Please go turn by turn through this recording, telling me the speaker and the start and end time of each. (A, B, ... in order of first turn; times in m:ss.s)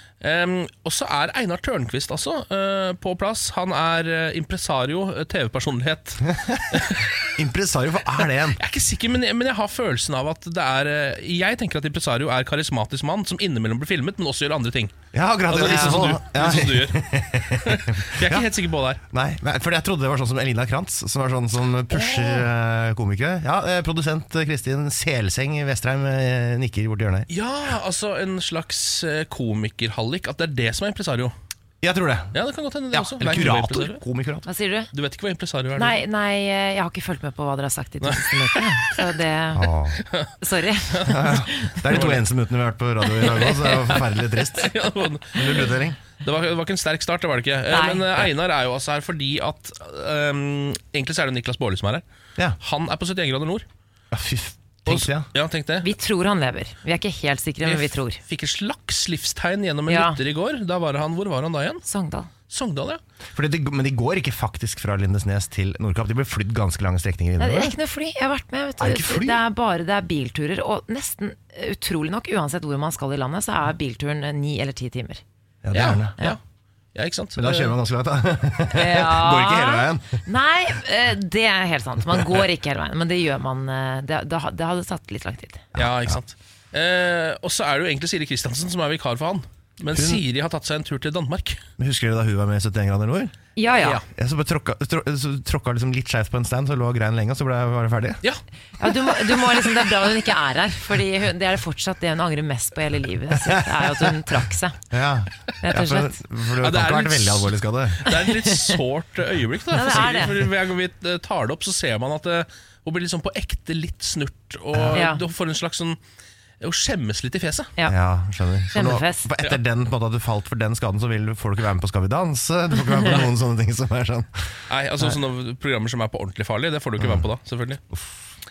0:00.2-0:07.2 A
0:06.3-0:06.8 B
0:07.4-0:08.6 B
0:08.5-0:14.9 A
0:15.1-0:18.4 B
0:15.5-0:19.0 A
0:15.5-0:16.1 C
0:19.1-0:27.3 B
0:21.9-0:22.5 A
0:27.3-0:31.3 A
0:31.8-0:32.4 B
0:32.3-0:34.0 A
0:32.9-0:34.4 B
0:34.4-0:34.9 C
0:34.9-0:36.0 A
0:35.8-0:39.7 C
0:38.0-0:38.9 A
0:39.5-0:40.0 B
0:40.4-0:41.8 C
0:41.0-0:44.7 B
0:41.8-0:42.2 A
0:43.3-0:45.7 A
0:45.3-0:46.0 B
0:46.2-0:52.0 A
0:47.7-0:48.3 C
0:52.6-0:53.6 A
0:54.1-0:55.3 B
0:54.9-0:55.9 A
0:55.8-0:58.2 C
0:57.6-1:01.8 A
0:59.9-1:00.2 C
1:01.8-1:02.3 C
1:02.5-1:03.0 A
1:03.3-1:07.7 B
1:07.4-1:15.2 C
1:08.8-1:09.4 B
1:15.6-1:16.1 B
1:15.7-1:16.4 A
1:16.9-1:17.7 A
1:17.4-1:20.2 B
1:18.7-1:25.6 C
1:25.8-1:31.6 A
1:25.8-1:26.2 B
1:29.9-1:30.2 B
1:31.8-1:33.3 B
1:33.6-1:34.0 C
1:34.1-1:38.2 B
1:38.8-1:44.8 C
1:43.4-1:43.8 B
1:44.9-1:48.0 B
1:45.6-1:46.2 C
1:46.6-1:56.0 A
1:48.2-1:48.5 C
1:49.7-1:50.4 C
1:54.7-1:55.0 B
1:54.9-1:55.2 C
1:56.6-1:57.7 A
1:57.8-2:04.4 B
1:58.7-1:59.3 C
2:04.7-2:07.8 A
2:07.0-2:07.3 B